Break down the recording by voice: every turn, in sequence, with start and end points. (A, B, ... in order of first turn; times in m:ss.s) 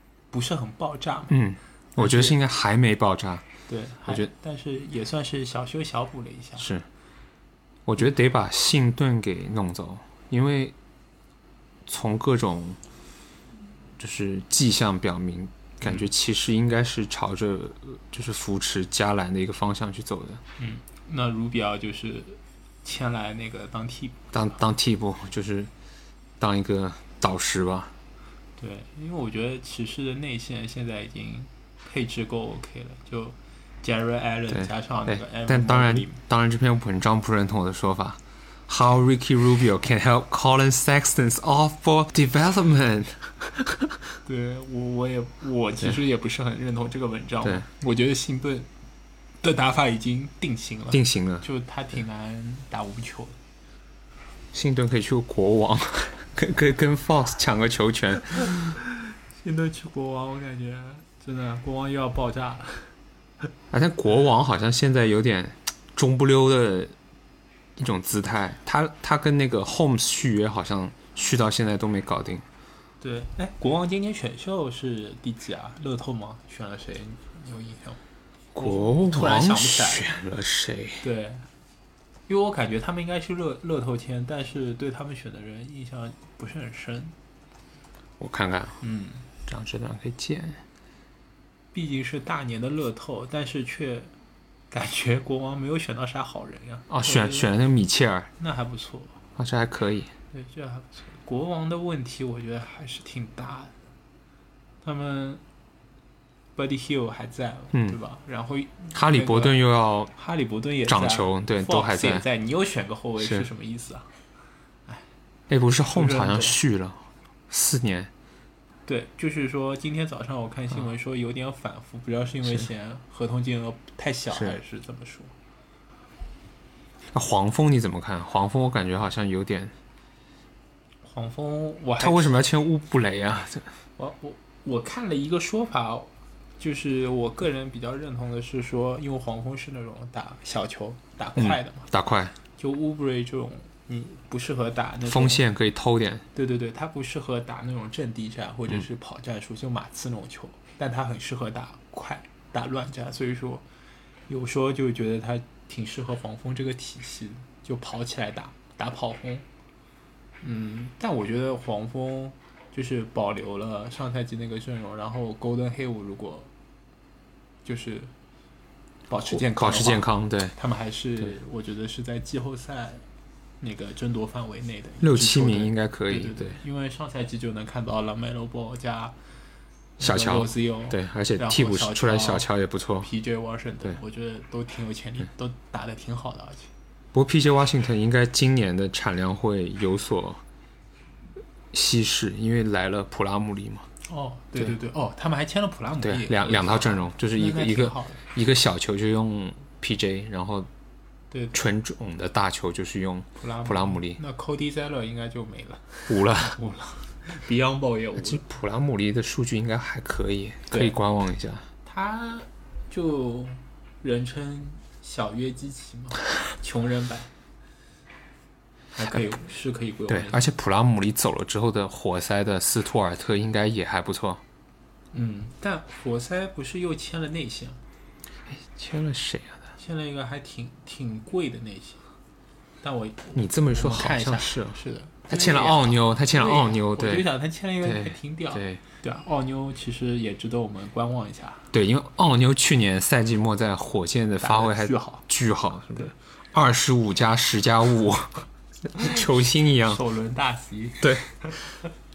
0:00.3-0:01.4 A
0:01.3-0:03.4 B
0:02.0-0:02.4 A
0:03.7-0:06.7 A
0:06.6-0:06.9 B
0:07.8-0:10.7 B
0:11.8-0:12.8 B
0:14.0-0:20.4 B
0:15.8-0:16.1 A
0:20.6-0:24.3 A
0:24.3-0:25.7 B
0:26.4-0:27.9 B
0:28.6-0:36.2 A
0:34.5-0:44.0 B
0:44.2-0:48.7 A
0:49.4-0:53.4 A
0:50.9-0:51.5 B
0:54.5-0:58.6 B
0:58.6-1:02.9 A
1:03.7-1:06.9 B
1:07.8-1:12.4 B
1:13.0-1:18.0 A
1:18.5-1:21.1 B
1:18.6-1:20.1 A
1:21.0-1:21.5 A
1:22.3-1:27.1 A
1:28.2-1:28.8 B
1:28.8-1:29.3 A
1:29.4-1:30.6 B
1:31.7-1:34.1 A
1:34.7-1:37.5 A
1:36.9-1:38.3 B
1:38.4-1:39.2 A
1:39.4-1:40.1 B
1:40.3-1:43.7 A
1:44.8-1:45.4 A
1:46.6-1:49.6 A
1:47.7-1:48.0 B
1:48.9-1:50.1 B
1:50.1-1:54.1 A
1:50.9-1:52.2 B
1:55.5-1:58.1 B
1:55.8-1:56.6 A
1:58.9-2:05.3 A
2:07.1-2:09.7 B
2:11.0-2:12.4 A
2:12.0-2:13.7 B
2:14.0-2:21.8 A
2:21.4-2:22.3 B
2:22.6-2:25.4 A
2:25.0-2:26.2 B
2:26.3-2:33.6 A
2:34.3-2:39.4 A
2:40.4-2:46.5 A
2:47.6-2:48.1 A
2:49.1-2:53.0 A
2:49.3-2:50.5 B
2:53.6-2:59.1 A
2:55.0-2:56.6 B
3:00.0-3:02.5 A
3:00.0-3:03.1 B
3:03.0-3:06.7 A
3:07.1-3:10.4 B
3:11.7-3:13.9 B
3:14.0-3:18.2 A
3:16.0-3:20.7 B
3:21.3-3:21.6 A
3:21.5-3:24.2 B
3:23.4-3:28.4 A
3:26.1-3:26.6 B
3:28.2-3:31.6 B
3:30.7-3:31.0 A
3:31.8-3:37.3 A
3:38.9-3:40.5 A
3:40.1-3:44.4 B
3:45.1-3:47.8 A
3:48.5-3:49.7 B
3:49.8-3:52.0 A
3:52.8-4:01.7 A
3:53.3-3:57.3 B
3:57.8-3:58.8 B
4:01.7-4:10.0 B
4:04.4-4:05.2 A
4:09.8-4:11.7 A
4:11.0-4:11.4 B